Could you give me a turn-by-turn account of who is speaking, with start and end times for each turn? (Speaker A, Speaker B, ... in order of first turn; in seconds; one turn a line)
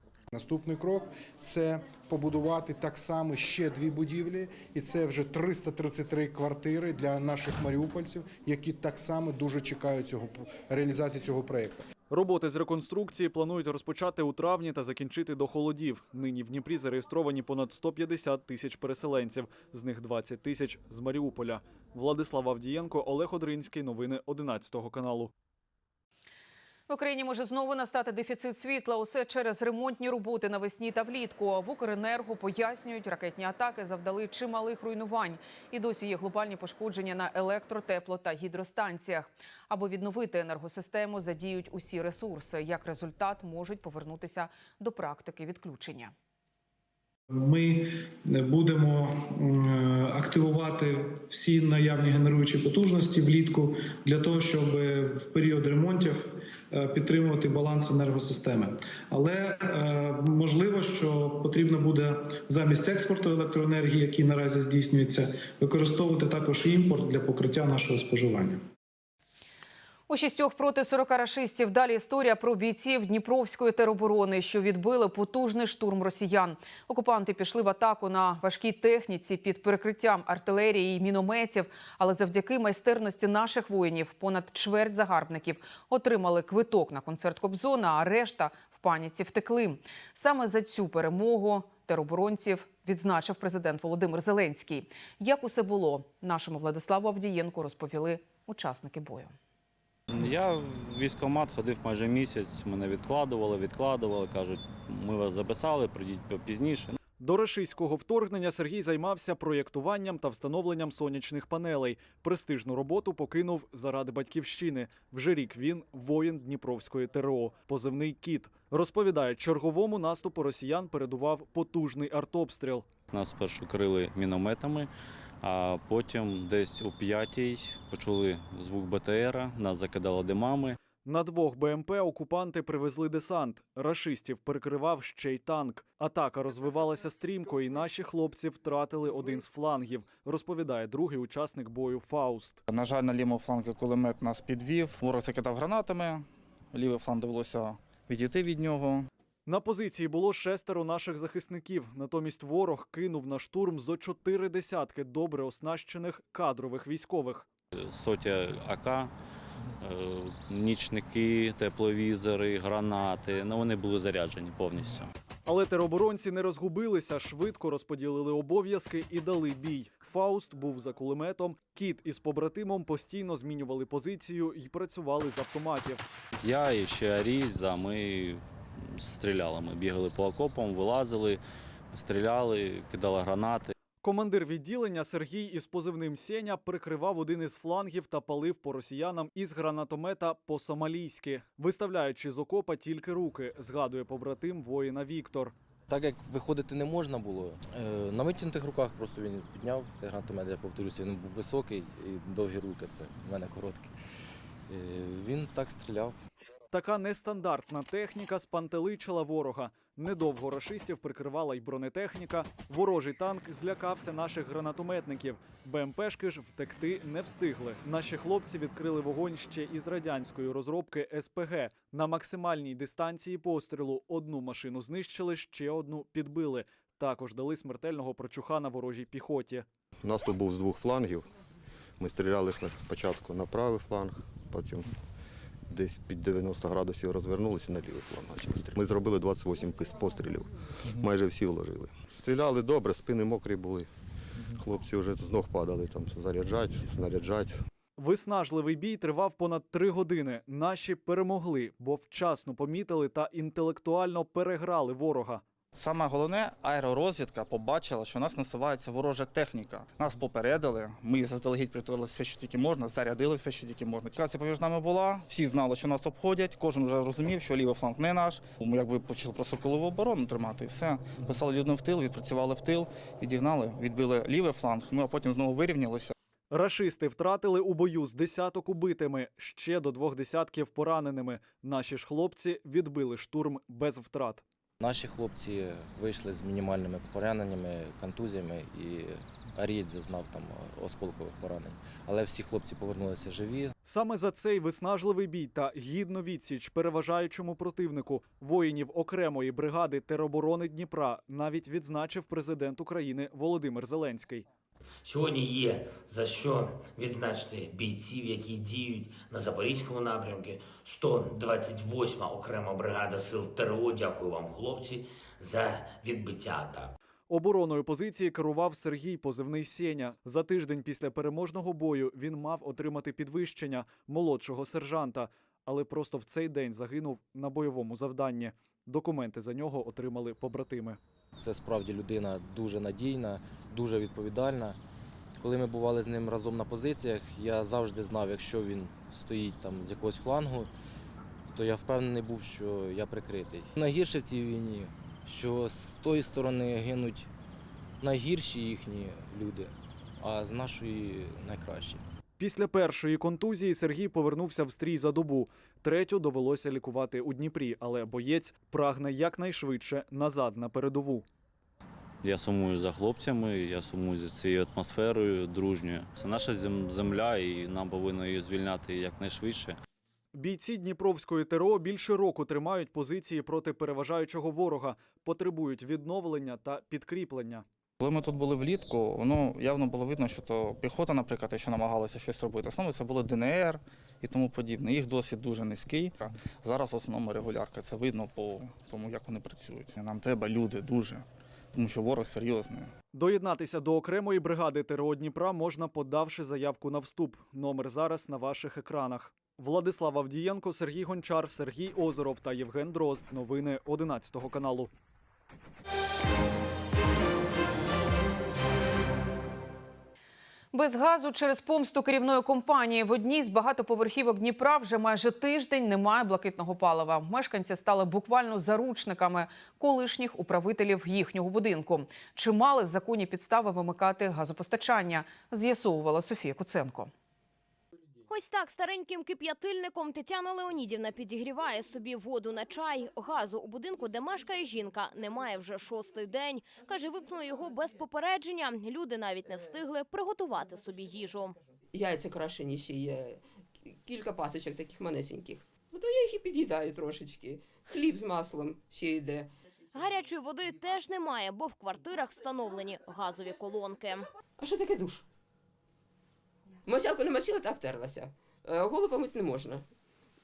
Speaker A: 0.3-11.9
Speaker B: 12.1-25.3
Speaker C: 26.9-46.1
Speaker D: 47.3-68.6
Speaker C: 70.1-99.3
Speaker E: 100.1-107.0
Speaker B: 107.2-122.9
Speaker E: 123.1-124.9
Speaker E: 125.4-130.8
Speaker B: 131.0-142.6
Speaker F: 142.7-149.1
Speaker B: 149.5-157.5
Speaker E: 157.8-159.1
Speaker E: 159.8-165.1
Speaker B: 165.4-176.1
Speaker E: 176.4-183.7
Speaker B: 184.0-195.5
Speaker G: 195.9-203.9
Speaker G: 204.7-206.2
Speaker B: 206.7-229.6
Speaker H: 230.0-231.3
Speaker H: 232.0-234.9
Speaker H: 235.7-243.9
Speaker H: 244.5-247.6
Speaker B: 248.0-255.4
Speaker F: 255.7-276.1
Speaker B: 276.5-284.4
Speaker G: 284.8-293.7
Speaker B: 293.8-304.4
Speaker I: 305.0-316.9
Speaker B: 317.3-331.0
Speaker G: 331.4-334.8
Speaker G: 335.4-340.7
Speaker G: 341.5-347.3
Speaker G: 348.0-352.0
Speaker B: 352.4-361.2
Speaker E: 362.2-369.8
Speaker B: 370.3-377.6
Speaker F: 378.0-392.9
Speaker B: 393.1-404.9
Speaker C: 410.7-427.1
Speaker J: 428.3-441.6
Speaker K: 441.9-449.5
Speaker J: 449.9-454.3
Speaker K: 454.6-455.2
Speaker K: 456.8-459.8